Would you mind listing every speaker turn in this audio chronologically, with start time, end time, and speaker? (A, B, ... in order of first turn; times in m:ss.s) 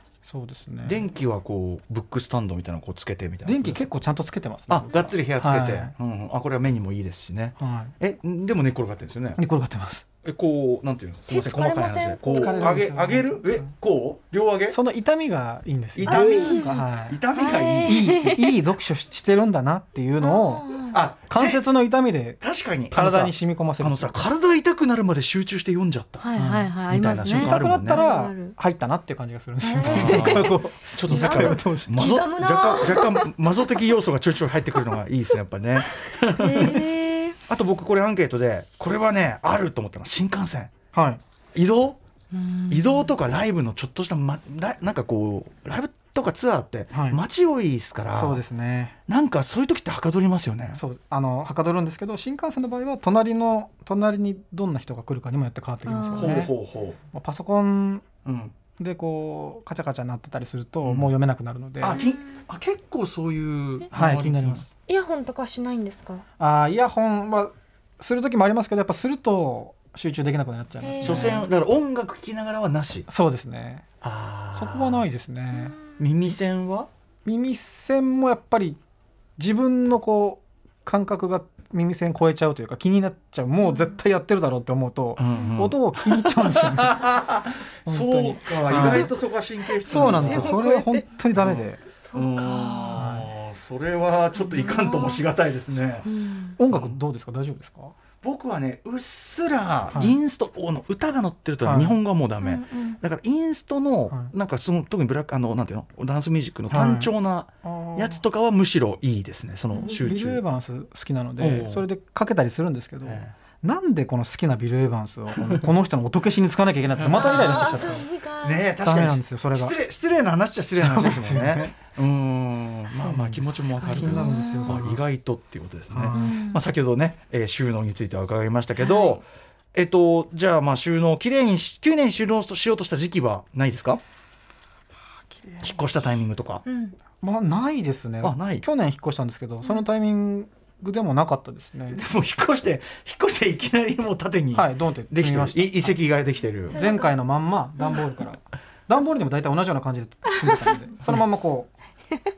0:00.2-0:01.0 A
0:00.8-0:03.9 B
0:03.4-0:05.9 A
0:04.7-0:09.4 B
0:07.6-0:07.9 A
0:09.4-0:10.0 A
0:10.2-0:14.8 B
0:11.3-0:12.8 C
0:12.3-0:13.7 A
0:14.7-0:17.2 A
0:16.0-0:18.1 B
0:16.0-0:18.6 C
0:17.8-0:20.7 A
0:20.2-0:21.0 C
0:20.9-0:21.6 B
0:21.3-0:24.2 A
0:22.4-0:26.2 B
0:26.2-0:28.5 C
0:26.4-0:32.1 A
0:26.9-0:28.0 B
0:29.6-0:33.5 C
0:29.8-0:36.9 B
0:35.9-0:37.4 C
0:37.5-0:40.7 B
0:40.9-0:41.2 A
0:41.5-0:42.0 B
0:42.3-0:43.1 C
0:42.7-0:48.4 B
0:46.9-0:47.2 A
0:48.1-0:49.0 A
0:49.1-0:50.8 B
0:50.7-0:56.5 A
0:55.8-0:56.3 C
0:56.1-0:57.0 B
0:57.1-0:58.0 A
0:58.2-0:58.5 B
0:58.8-1:02.0 A
1:00.8-1:01.1 B
1:01.8-1:04.7 B
1:01.9-1:02.2 C
1:03.9-1:04.7 A
1:04.9-1:06.2 C
1:06.4-1:11.4 A
1:10.8-1:11.4 C
1:11.0-1:13.1 B
1:13.1-1:13.8 A
1:14.0-1:15.0 B
1:14.5-1:15.7 A
1:15.5-1:15.9 C
1:16.0-1:16.9 B
1:17.2-1:18.8 A
1:19.4-1:27.0 A
1:25.2-1:30.6 B
1:27.8-1:29.1 A
1:29.9-1:31.8 A
1:30.0-1:31.0 C
1:31.3-1:36.1 B
1:32.0-1:33.1 C
1:32.9-1:33.3 A
1:34.3-1:35.2 C
1:36.0-1:36.6 C
1:36.6-1:37.9 A
1:36.7-1:37.0 B
1:38.2-1:50.4 B
1:39.9-1:40.2 A
1:41.6-1:42.0 A
1:42.4-1:43.0 C
1:46.7-1:47.1 A
1:47.6-1:48.2 A
1:49.7-1:50.0 C
1:49.8-1:58.0 A
1:51.4-1:51.8 B
1:53.0-1:53.3 B
1:55.3-1:55.6 B
1:56.9-2:14.0 B
1:57.2-1:58.6 C
1:58.8-1:59.8 A
2:00.8-2:01.8 A
2:02.9-2:05.0 A
2:03.8-2:04.8 C
2:05.9-2:06.4 A
2:06.1-2:06.6 C
2:08.8-2:09.2 C
2:15.3-2:15.7 A
2:15.6-2:16.6 B
2:16.6-2:16.9 C
2:17.2-2:22.0 A
2:18.2-2:18.6 B
2:21.9-2:26.7 B
2:24.5-2:26.0 A
2:26.7-2:27.1 C
2:26.7-2:31.7 A